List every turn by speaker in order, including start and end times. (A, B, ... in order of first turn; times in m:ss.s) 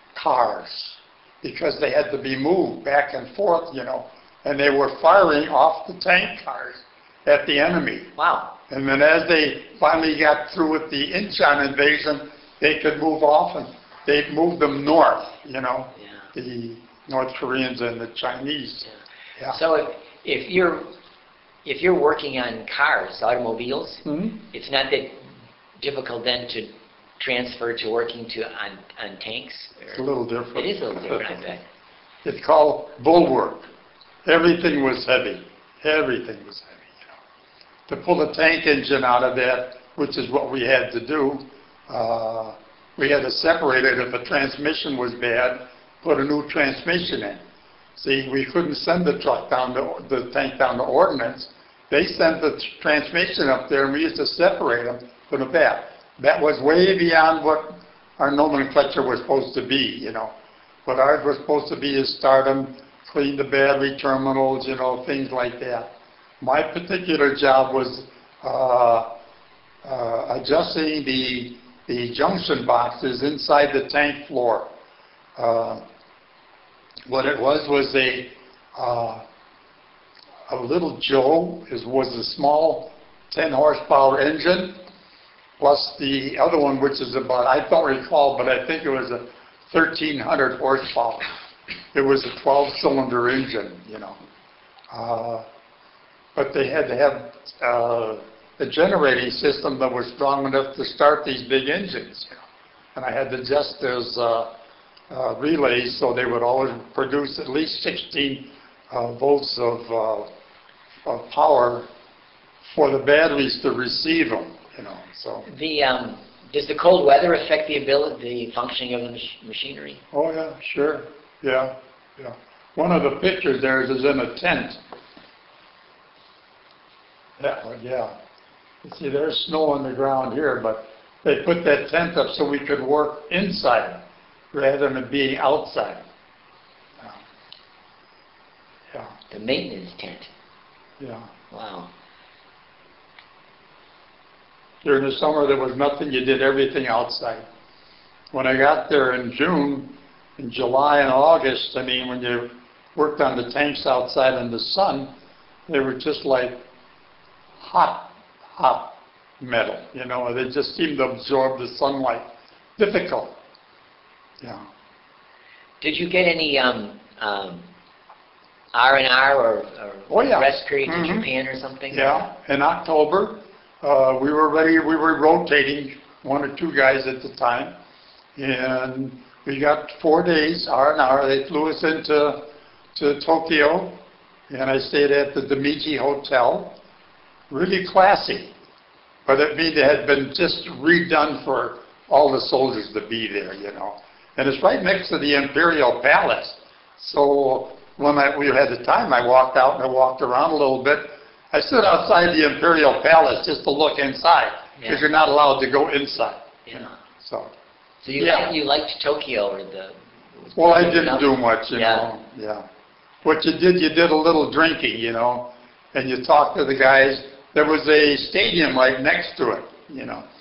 0:00.1-0:08.1 A
0:08.2-0:08.5 B
0:08.7-0:19.6 A
0:19.5-0:20.9 B
0:21.6-0:30.0 B
0:24.0-0:24.4 A
0:29.9-0:31.4 A
0:30.5-0:31.6 B
0:32.2-0:33.7 A
0:34.2-0:37.1 A
0:37.9-0:47.4 A
0:48.0-1:00.3 A
1:00.8-1:05.9 A
1:06.4-1:09.1 A
1:09.8-1:14.7 A
1:15.4-1:15.8 A
1:17.1-1:19.2 A
1:20.5-1:24.8 A
1:25.6-1:31.3 A
1:31.9-1:34.2 A
1:34.9-1:35.4 A
1:36.3-1:42.4 A
1:42.9-1:44.5 A
1:45.1-1:50.3 A
1:51.0-1:51.9 A
1:52.7-1:55.4 A
1:55.4-2:00.0 B
2:00.1-2:04.8 A
2:07.4-2:08.1 A
2:08.8-2:16.0 A
2:19.3-2:20.3 B
2:21.0-2:21.3 A
2:21.5-2:21.9 B
2:24.8-2:27.4 A
2:28.3-2:35.1 A
2:35.7-2:36.6 A
2:37.6-2:43.3 A
2:44.4-2:44.6 A
2:45.8-2:47.6 B
2:48.7-2:52.3 B
2:50.1-2:51.3 A
2:51.9-2:57.7 A
2:58.4-3:02.4 A
3:02.9-3:04.0 A
3:04.5-3:06.7 A
3:07.5-3:08.5 A
3:09.2-3:27.5 A
3:24.8-3:25.0 B
3:26.7-3:26.9 B
3:28.0-3:32.1 B
3:28.2-3:28.5 A
3:30.6-3:32.6 A
3:33.2-3:40.2 A